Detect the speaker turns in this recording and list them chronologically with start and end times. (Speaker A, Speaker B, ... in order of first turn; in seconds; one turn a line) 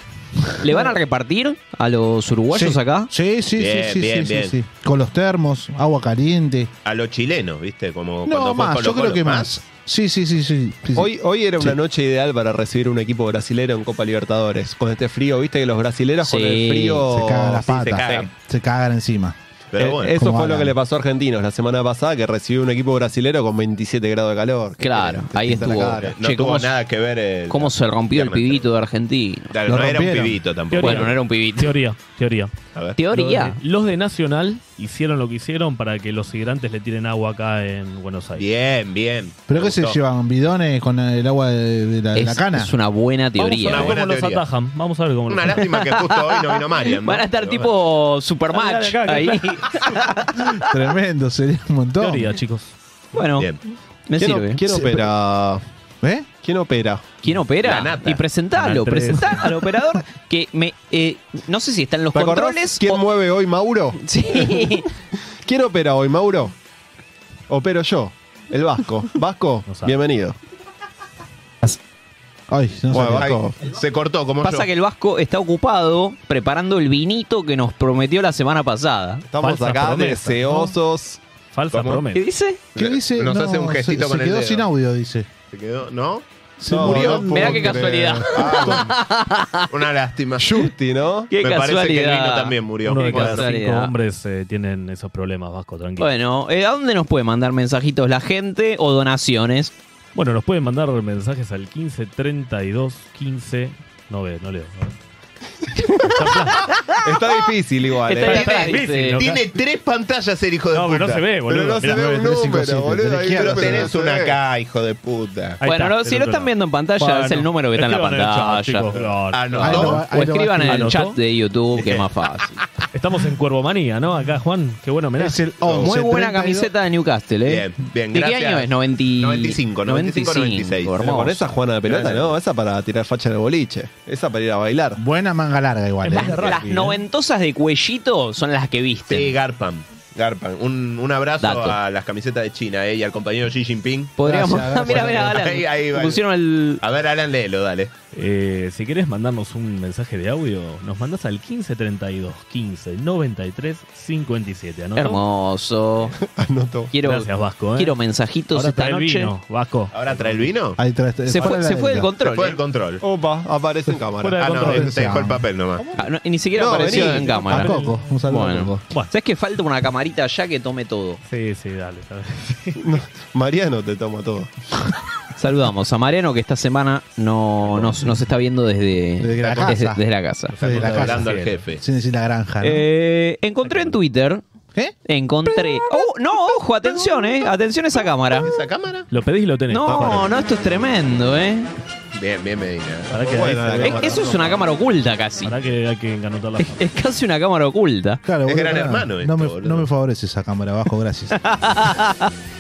Speaker A: 0.6-3.1
Speaker B: 2.5-6.7
Speaker C: 3.6-4.5
Speaker C: 6.8-9.5
Speaker B: 8.2-11.8
Speaker D: 11.0-17.7
Speaker A: 16.2-17.0
Speaker B: 17.1-20.8
Speaker C: 17.7-18.3
Speaker C: 19.7-20.1
Speaker D: 19.8-26.1
Speaker A: 24.8-26.7
Speaker C: 26.0-28.7
Speaker A: 27.5-29.5
Speaker C: 29.5-31.1
Speaker B: 29.7-30.4
Speaker E: 30.7-32.5
Speaker A: 30.8-31.7
Speaker C: 32.7-33.0
Speaker A: 33.0-33.6
Speaker E: 33.1-38.5
Speaker C: 38.4-40.0
Speaker B: 39.5-42.7
Speaker A: 42.1-44.0
Speaker E: 43.4-45.7
Speaker C: 43.5-44.5
Speaker C: 45.3-47.7
Speaker A: 45.6-50.5
Speaker E: 48.5-50.2
Speaker B: 50.6-52.4
Speaker E: 52.0-52.8
Speaker A: 53.1-53.5
Speaker A: 54.1-54.6
Speaker D: 54.2-55.6
Speaker B: 56.0-56.3
Speaker D: 56.4-57.0
Speaker A: 57.2-63.0
Speaker C: 57.6-58.2
Speaker E: 58.5-59.7
Speaker D: 62.1-64.7
Speaker A: 64.0-64.9
Speaker D: 65.5-66.5
Speaker D: 67.5-70.4
Speaker E: 69.7-70.0
Speaker B: 72.5-73.4
Speaker D: 72.9-73.6
Speaker C: 73.1-74.7
Speaker A: 74.4-79.2
Speaker D: 79.3-81.2
Speaker E: 79.4-80.7
Speaker E: 81.5-82.2
Speaker C: 81.7-82.0
Speaker A: 82.1-82.6
Speaker C: 82.8-84.7
Speaker B: 82.8-85.3
Speaker C: 85.5-89.0
Speaker B: 86.6-88.6
Speaker D: 86.8-87.2
Speaker A: 86.8-89.7
Speaker C: 89.7-90.6
Speaker D: 90.4-91.3
Speaker A: 91.3-93.9
Speaker C: 91.4-93.5
Speaker E: 92.8-96.1
Speaker A: 96.0-99.7
Speaker E: 100.2-105.0
Speaker E: 106.0-106.7
Speaker D: 107.0-108.6
Speaker A: 108.1-109.2
Speaker E: 108.1-109.4
Speaker C: 108.2-111.3
Speaker E: 110.7-112.2
Speaker D: 111.5-114.3
Speaker B: 111.8-114.2
Speaker C: 113.3-115.6
Speaker E: 115.6-121.2
Speaker A: 115.6-118.9
Speaker C: 118.9-120.0
Speaker B: 119.6-120.9
Speaker A: 119.6-122.6
Speaker C: 121.8-122.0
Speaker E: 122.9-125.5
Speaker B: 125.2-126.7
Speaker C: 125.6-126.0
Speaker A: 125.8-131.5
Speaker C: 127.5-131.2
Speaker D: 131.0-135.0
Speaker C: 131.9-132.4
Speaker B: 135.0-136.9
Speaker E: 136.0-137.0
Speaker A: 136.2-139.3
Speaker C: 139.1-144.2
Speaker A: 141.4-141.8
Speaker A: 144.2-146.8
Speaker B: 144.2-145.4
Speaker C: 144.8-146.2
Speaker C: 146.8-147.9
Speaker E: 148.1-155.2
Speaker A: 155.0-156.2
Speaker D: 156.2-156.9
Speaker A: 156.9-159.3
Speaker E: 157.0-158.0
Speaker E: 158.5-160.4
Speaker C: 159.9-160.8
Speaker B: 160.8-162.1
Speaker A: 161.3-162.6
Speaker C: 162.2-163.0
Speaker D: 163.0-164.7
Speaker E: 164.2-165.0
Speaker C: 164.4-165.9
Speaker B: 164.6-165.9
Speaker A: 166.0-167.8
Speaker D: 166.6-167.3
Speaker E: 166.9-168.0
Speaker B: 167.4-168.8
Speaker A: 168.3-171.2
Speaker E: 171.3-172.8
Speaker D: 172.8-174.5
Speaker A: 175.4-180.6
Speaker B: 179.2-180.0
Speaker C: 179.4-179.8
Speaker E: 180.5-181.7
Speaker B: 180.6-182.8
Speaker C: 180.6-181.8
Speaker A: 182.6-184.4
Speaker E: 183.6-184.0
Speaker A: 185.1-188.5
Speaker C: 188.4-189.1
Speaker E: 189.1-190.4
Speaker A: 189.7-191.7
Speaker C: 192.2-194.4
Speaker E: 193.1-194.2
Speaker D: 193.2-194.6
Speaker A: 193.8-195.6
Speaker E: 195.4-196.9
Speaker A: 196.6-198.2
Speaker B: 198.2-201.4
Speaker C: 198.5-199.9
Speaker A: 201.4-202.3